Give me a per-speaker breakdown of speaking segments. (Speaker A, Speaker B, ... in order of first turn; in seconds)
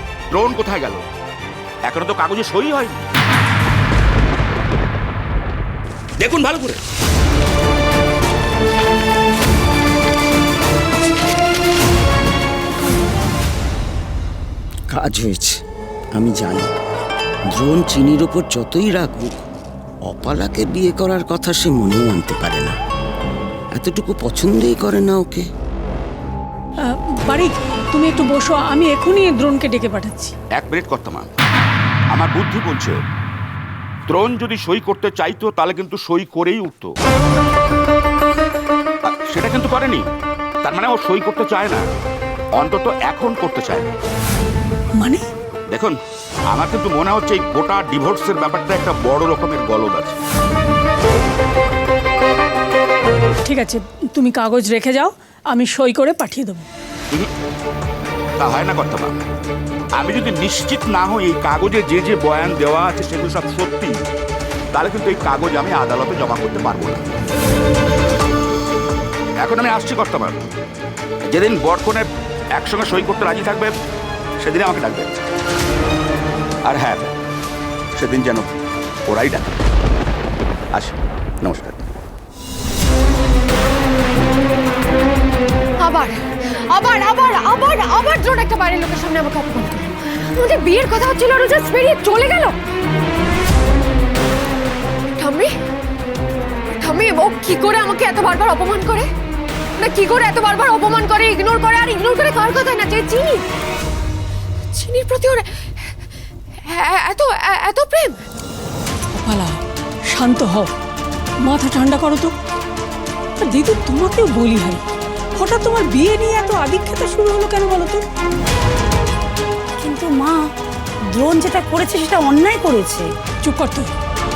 Speaker A: 0.3-1.0, 1.9-3.0, 6.2-6.8, 30.5-31.3, 32.1-33.0, 34.1-36.9, 39.0-40.0, 40.6-41.9, 42.6-43.9, 46.5-50.2, 58.4-59.2, 60.0-63.9, 64.7-67.1, 69.4-70.4, 71.3-73.7, 74.4-75.2, 76.6-77.1, 77.9-78.5, 79.1-79.5, 80.7-81.8
Speaker B: 14.9-15.6, 16.1-16.7, 17.5-19.4, 20.1-22.7, 23.7-25.5
Speaker C: 26.8-30.3, 45.0-45.2, 53.4-56.7, 109.1-109.5, 110.1-110.7, 111.4-112.3, 113.4-114.8, 115.3-118.0, 123.4-123.9
Speaker D: 85.8-92.5, 95.2-95.5, 96.8-99.1, 99.8-103.5, 104.7-105.9, 106.7-108.2
Speaker E: 119.8-120.4, 121.1-123.1